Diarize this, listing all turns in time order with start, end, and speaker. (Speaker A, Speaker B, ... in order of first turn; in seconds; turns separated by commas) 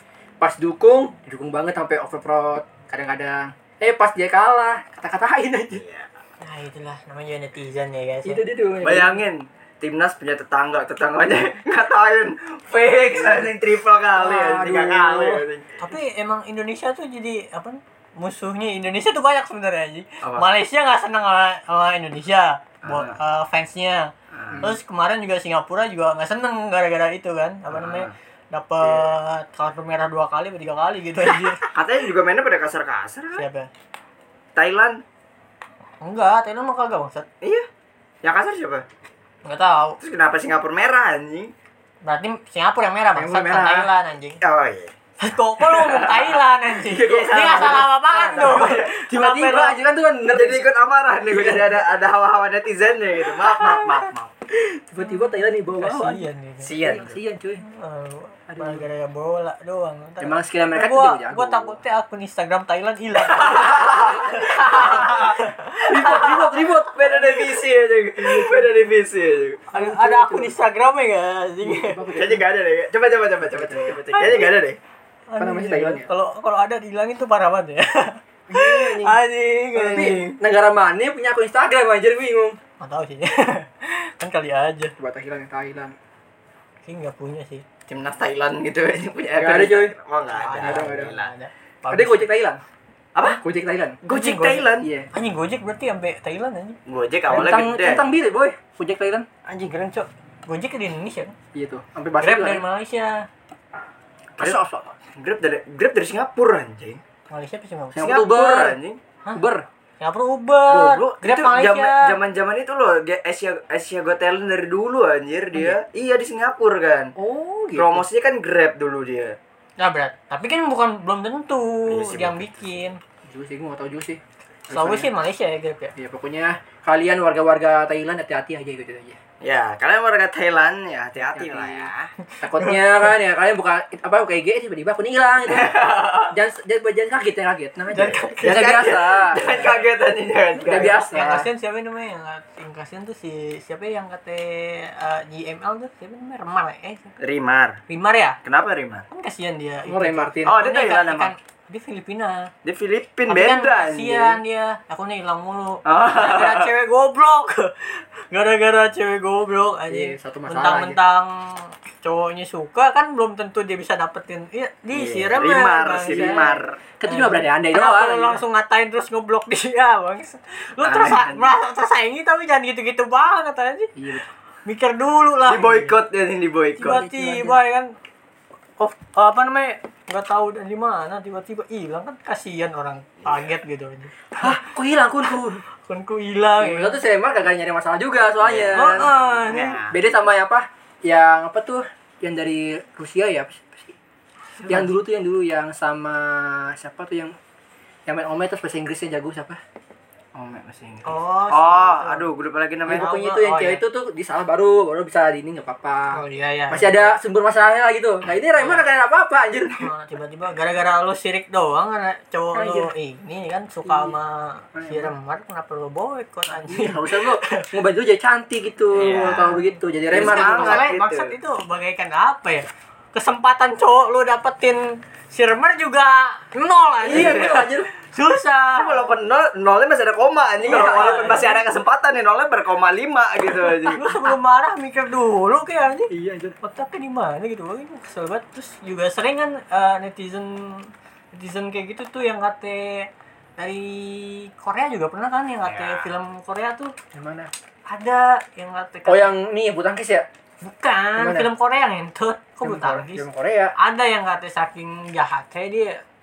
Speaker A: 0.4-5.8, Speaker B: 5.7-6.1, Speaker C: 6.4-8.4, Speaker A: 8.3-9.2, Speaker B: 8.8-15.8, Speaker A: 13.1-13.5, Speaker A: 14.2-15.4, Speaker C: 15.8-31.6, Speaker B: 20.2-20.5, Speaker B: 22.9-23.1, Speaker B: 24.3-24.7, Speaker A: 24.5-24.8, Speaker B: 27.7-28.1, Speaker B: 28.8-29.1, Speaker B: 31.6-33.5, Speaker C: 33.3-33.7, Speaker B: 34.6-35.0, Speaker C: 36.0-37.3, Speaker B: 37.4-37.7, Speaker B: 38.2-38.9, Speaker C: 39.5-40.0, Speaker B: 40.0-41.5, Speaker C: 42.0-44.4, Speaker A: 43.1-43.9, Speaker B: 44.4-45.0, Speaker C: 45.2-49.8, Speaker B: 45.6-46.4, Speaker A: 46.8-50.6, Speaker B: 47.0-48.9, Speaker B: 50.2-54.3, Speaker A: 51.3-51.9, Speaker C: 53.5-54.0, Speaker A: 54.5-57.6, Speaker C: 55.0-56.8, Speaker B: 56.6-57.2, Speaker C: 57.6-66.9, Speaker A: 58.5-58.9, Speaker A: 60.2-61.8, Speaker B: 63.3-65.4, Speaker A: 65.8-67.5, Speaker B: 66.6-69.6, Speaker A: 68.2-68.7, Speaker C: 69.7-72.0, Speaker A: 69.7-70.5, Speaker A: 71.6-72.5, Speaker B: 72.1-74.8, Speaker A: 73.4-74.3, Speaker C: 74.1-74.5, Speaker C: 75.3-80.2, Speaker A: 75.4-76.1, Speaker B: 78.5-79.2, Speaker B: 79.8-80.4, Speaker A: 79.8-82.6, Speaker C: 82.8-85.0, Speaker A: 85.0-86.0, Speaker C: 86.8-87.7, Speaker B: 87.9-91.3, Speaker A: 89.3-90.0, Speaker C: 90.3-92.3, Speaker A: 90.5-91.2, Speaker A: 91.9-92.6, Speaker B: 93.2-93.4, Speaker A: 93.2-94.0, Speaker B: 94.0-94.9, Speaker C: 94.1-96.8, Speaker A: 94.8-95.1, Speaker B: 96.9-98.1, Speaker A: 97.3-99.3, Speaker B: 99.5-100.1, Speaker C: 100.5-101.3, Speaker A: 101.5-102.6, Speaker C: 102.2-103.3, Speaker A: 104.4-104.9, Speaker B: 105.1-107.0, Speaker C: 107.3-108.0, Speaker A: 107.9-108.8, Speaker B: 108.0-109.0, Speaker A: 109.3-109.6, Speaker C: 110.0-112.2, Speaker B: 110.7-117.1, Speaker A: 117.2-118.1, Speaker B: 117.7-119.4, Speaker C: 119.8-123.0, Speaker B: 121.9-122.9, Speaker A: 123.3-125.1, Speaker C: 124.7-125.9, Speaker A: 126.0-129.2, Speaker B: 129.4-132.1, Speaker A: 131.2-131.9, Speaker C: 132.3-133.1, Speaker A: 132.4-139.8, Speaker B: 135.4-136.4, Speaker C: 137.9-138.8, Speaker B: 138.4-141.1, Speaker A: 140.6-141.5, Speaker C: 140.9-147.1, Speaker B: 147.2-147.8, Speaker C: 147.9-148.4, Speaker B: 148.4-149.1, Speaker C: 149.1-152.5, Speaker A: 149.9-150.6, Speaker B: 150.4-151.3, Speaker B: 152.6-154.4, Speaker C: 153.3-166.5, Speaker B: 155.8-156.7, Speaker A: 159.9-161.0, Speaker B: 164.9-166.8, Speaker A: 166.1-168.4, Speaker C: 167.1-173.9, Speaker B: 170.8-171.5, Speaker A: 174.0-174.3, Speaker C: 174.7-176.0, Speaker B: 175.4-177.0, Speaker A: 176.8-177.6, Speaker C: 176.8-177.9, Speaker C: 178.8-184.6, Speaker B: 183.2-183.5, Speaker A: 184.4-185.6, Speaker C: 185.7-187.0, Speaker A: 186.6-189.1, Speaker B: 188.4-190.0, Speaker C: 188.8-189.8, Speaker A: 189.9-193.9, Speaker A: 194.7-197.3, Speaker A: 198.1-199.6, Speaker B: 200.3-203.1, Speaker C: 201.1-202.3, Speaker C: 202.9-203.8, Speaker A: 202.9-206.2, Speaker C: 206.1-207.1, Speaker A: 206.7-209.9, Speaker C: 208.6-208.9, Speaker C: 209.8-217.7, Speaker A: 212.5-212.9, Speaker A: 213.8-214.2, Speaker A: 214.7-215.1, Speaker A: 216.7-220.8, Speaker B: 218.9-221.3, Speaker C: 220.1-229.1, Speaker B: 227.0-227.7, Speaker A: 227.1-227.9, Speaker B: 228.7-234.1, Speaker A: 230.6-231.6, Speaker C: 230.6-231.6, Speaker C: 233.9-247.0, Speaker A: 236.1-236.6, Speaker B: 245.6-246.1, Speaker A: 247.1-247.5, Speaker C: 247.9-249.4, Speaker A: 249.1-250.3, Speaker C: 250.6-256.0, Speaker A: 251.2-251.5, Speaker A: 252.6-253.8